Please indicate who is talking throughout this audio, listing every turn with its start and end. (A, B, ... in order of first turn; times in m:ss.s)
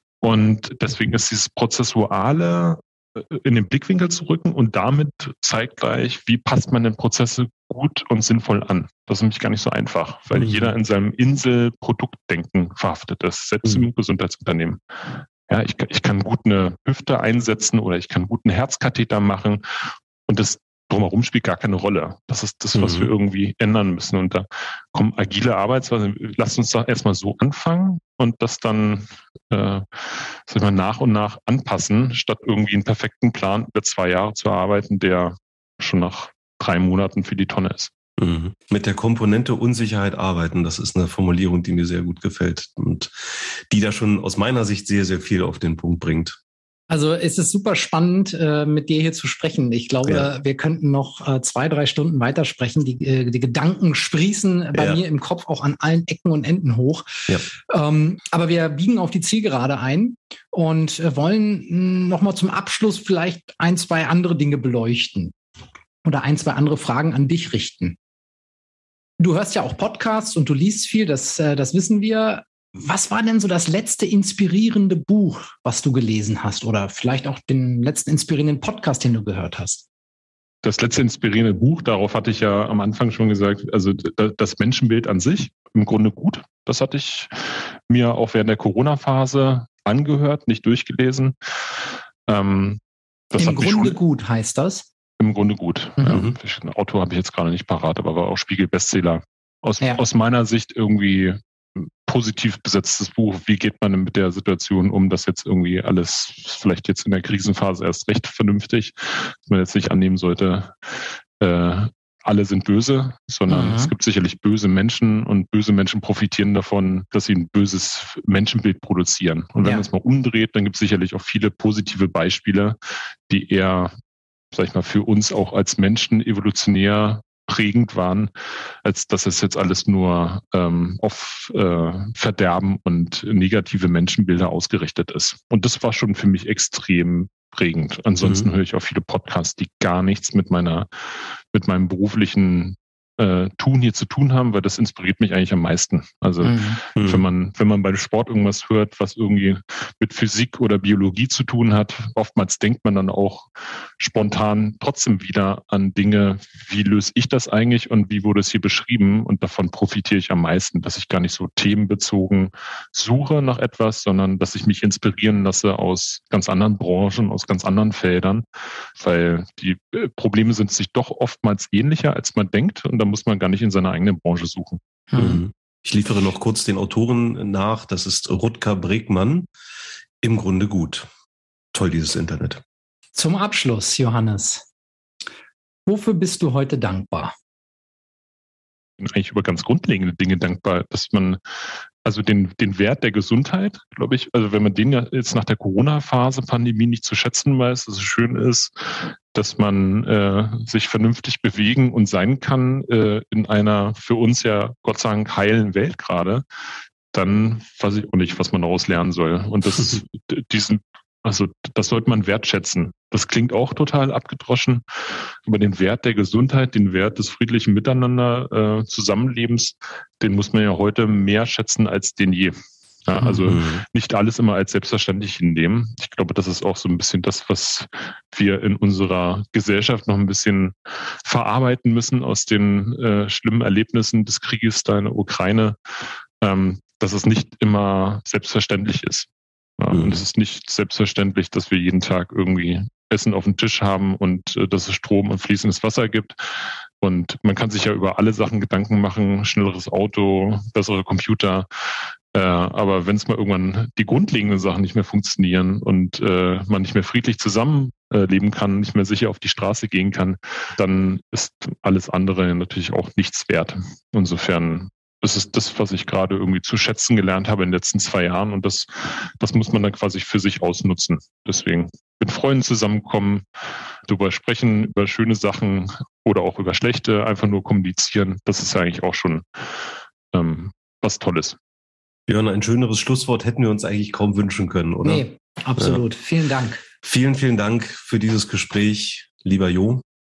0:00.2-0:19.6 A
0:10.3-0:10.7 B
0:20.3-0:37.9 A
0:22.7-0:23.1 B
0:38.2-0:46.4 B
0:46.9-1:05.3 C
0:54.7-0:55.0 B
1:06.0-1:08.0 C
1:09.2-1:19.9 C
1:20.6-1:32.8 A
1:33.3-1:34.0 A
1:33.4-1:34.9 C
1:35.2-2:02.8 A
1:36.0-1:36.2 C
1:53.5-1:53.9 C
2:03.3-2:03.9 A
2:04.5-2:08.3 A
2:08.8-2:54.8 A
2:18.2-2:18.5 B
2:26.4-2:26.8 C
2:27.0-2:27.2 B
2:55.1-2:55.4 C
2:55.2-2:59.5 B
3:00.2-3:01.1 B
3:01.7-3:02.6 B
3:03.1-3:04.7 C
3:05.9-3:07.3 C
3:09.0-3:11.4 A
3:12.0-3:26.4 A
3:27.1-3:55.8 A
3:43.4-3:43.8 B
3:56.4-4:11.7 A
3:59.9-4:00.2 B
4:12.3-4:33.4 A
4:34.1-4:39.7 A
4:40.3-4:41.6 A
4:42.3-4:45.2 B
4:45.0-4:46.8 C
4:47.0-4:50.0 B